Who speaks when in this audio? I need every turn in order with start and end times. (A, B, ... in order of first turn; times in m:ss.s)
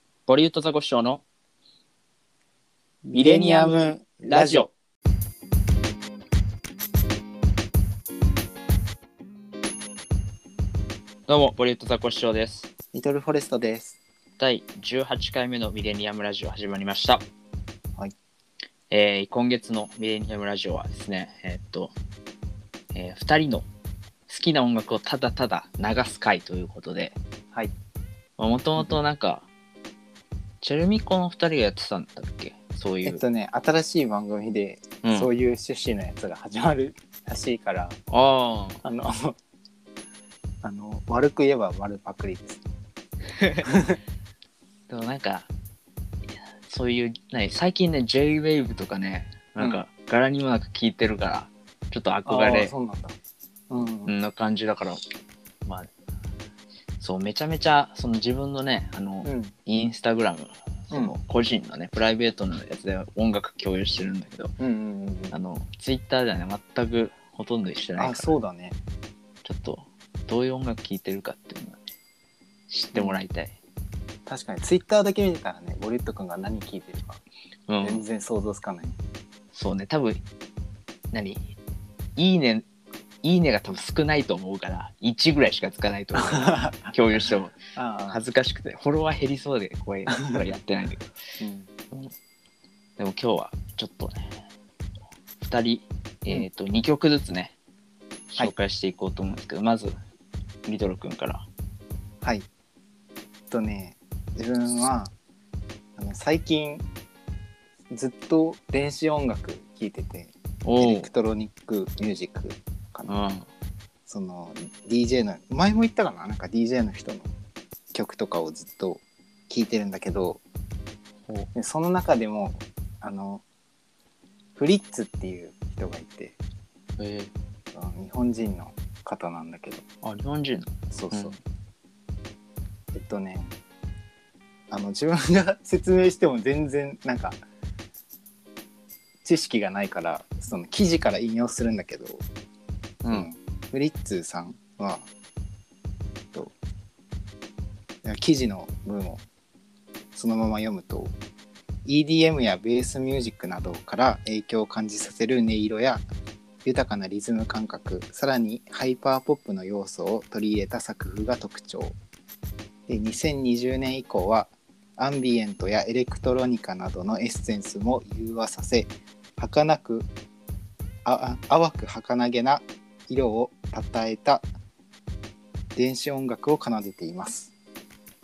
0:00.3-0:01.2 A
0:03.1-0:04.7 B
0:03.1-0:04.7 A
0:11.3-0:12.7 A
0:12.9-0:14.0 B
0:14.4-0:17.2 A
0:18.9-0:21.9 A
0:22.9-0:23.7 A
0:24.3-0:27.2 A
0:28.4-0:29.5 A
0:30.6-0:33.2 A
0:33.0-0:38.0 B
0:35.0-0:35.3 A
0:38.1-0:38.8 A
0:38.8-0:39.4 B
0:40.6-0:42.6 B
0:43.4-0:43.6 A
0:43.6-0:44.0 B
0:44.9-0:45.5 A
0:46.6-0:52.7 A
0:49.6-0:49.8 B
0:52.3-0:53.2 B
0:53.7-0:54.2 B
0:54.1-0:55.0 A
0:55.6-0:55.9 A
0:57.0-1:04.5 A
0:59.2-0:59.5 B
1:00.9-1:01.2 B
1:04.6-1:05.4 B
1:05.3-1:08.4 A
1:08.0-1:08.8 B
1:09.4-1:11.9 A
1:12.7-1:13.6 A
1:12.9-1:13.2 B
1:14.3-1:17.2 B
1:17.7-1:18.0 A
1:17.8-1:19.0 B
1:19.5-1:20.2 A
1:21.1-1:21.4 A
1:22.2-1:22.6 A
1:23.2-1:27.6 A
1:26.1-1:28.2 B
1:28.1-1:31.1 A
1:30.2-1:30.5 B
1:31.4-1:31.7 B
1:33.0-1:34.2 A
1:35.4-1:37.5 A
1:38.3-1:40.0 A
1:40.7-1:41.5 A
1:42.2-1:42.5 B
1:43.5-1:45.1 B
1:46.0-1:46.9 B
1:47.9-1:53.2 B
1:50.6-1:51.1 A
1:53.1-1:53.5 A
1:54.1-1:57.3 B
1:57.9-2:00.4 B
2:01.5-2:03.4 B
2:04.6-2:06.4 B
2:07.0-2:07.3 A
2:07.7-2:09.8 B
2:10.0-2:11.4 A
2:10.9-2:11.3 B
2:12.9-2:13.5 B
2:14.7-2:17.4 B
2:19.2-2:22.2 B
2:23.0-2:23.3 A
2:23.1-2:25.1 B
2:28.0-2:29.2 B
2:30.2-2:31.1 B
2:31.8-2:36.0 B
2:36.6-2:42.0 B
2:42.9-2:50.1 B
2:51.0-2:54.4 B
2:55.8-2:57.5 B